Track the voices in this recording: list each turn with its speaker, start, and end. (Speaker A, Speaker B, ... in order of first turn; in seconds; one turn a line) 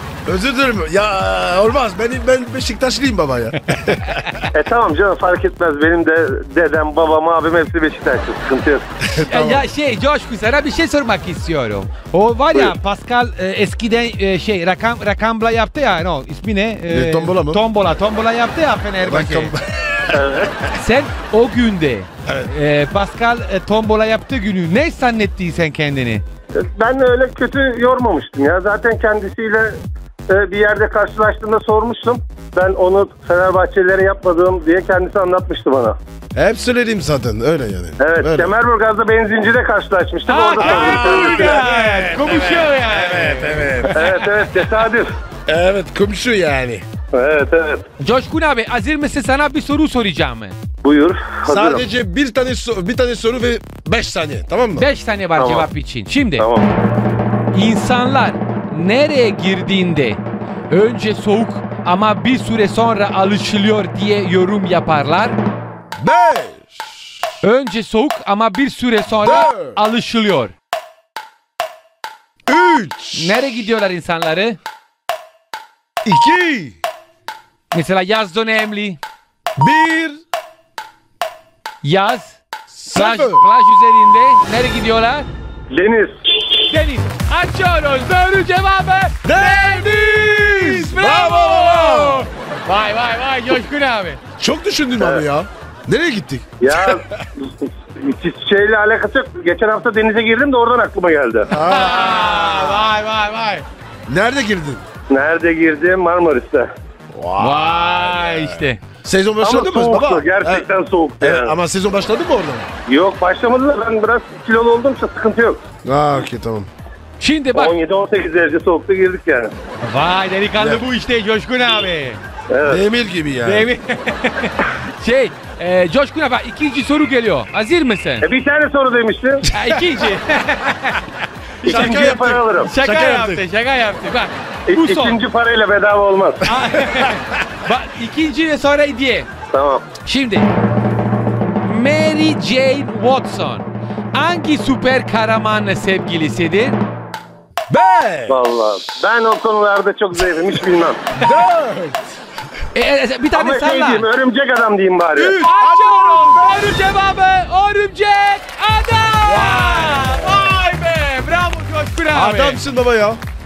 Speaker A: 0.2-4.4
Speaker B: 3.8-4.4
Speaker C: 4.5-8.9
Speaker A: 9.0-9.6
Speaker B: 9.2-19.5
Speaker A: 16.9-17.6
Speaker A: 19.0-20.7
Speaker C: 20.1-20.5
Speaker B: 20.7-26.2
Speaker A: 22.2-22.5
Speaker C: 26.5-36.0
Speaker A: 36.3-38.5
Speaker C: 38.0-41.6
Speaker B: 40.2-44.3
Speaker A: 40.6-44.0
Speaker C: 43.9-45.1
Speaker A: 45.5-46.8
Speaker C: 47.1-47.9
Speaker B: 48.0-50.5
Speaker C: 50.8-51.9
Speaker A: 51.5-54.9
Speaker B: 54.8-56.5
Speaker C: 55.4-55.7
Speaker C: 56.4-56.7
Speaker B: 57.5-65.4
Speaker A: 66.0-67.0
Speaker B: 67.4-70.5
Speaker A: 69.2-69.8
Speaker A: 72.5-73.4
Speaker B: 73.1-74.6
Speaker A: 76.0-76.8
Speaker B: 77.7-79.0
Speaker A: 79.6-80.2
Speaker B: 81.8-85.3
Speaker A: 82.7-83.4
Speaker C: 85.7-86.1
Speaker B: 86.6-94.2
Speaker A: 89.2-92.3
Speaker A: 94.4-97.2
Speaker C: 96.6-101.5
Speaker A: 101.5-102.8
Speaker B: 101.5-103.6
Speaker A: 104.1-104.8
Speaker C: 105.1-106.7
Speaker A: 107.1-110.7
Speaker B: 107.4-108.8
Speaker C: 109.4-111.5
Speaker A: 111.2-112.7
Speaker C: 112.9-115.6
Speaker A: 115.8-116.7
Speaker B: 117.2-117.8
Speaker C: 117.5-119.5
Speaker B: 119.8-122.2
Speaker A: 120.6-120.8
Speaker C: 122.5-122.8
Speaker A: 122.7-123.7
Speaker B: 123.4-128.3
Speaker C: 128.2-129.4
Speaker B: 129.5-131.0
Speaker A: 131.6-133.4
Speaker B: 131.6-135.2
Speaker C: 131.6-132.7
Speaker C: 134.7-136.5
Speaker B: 136.4-139.3
Speaker C: 139.5-139.8
Speaker B: 140.0-140.5
Speaker B: 141.6-146.8
Speaker A: 147.7-148.4
Speaker C: 148.3-151.0
Speaker A: 151.2-152.1
Speaker B: 152.7-154.1
Speaker C: 153.3-155.4
Speaker A: 155.1-156.7
Speaker B: 155.4-162.6
Speaker A: 159.2-160.5
Speaker A: 162.1-163.2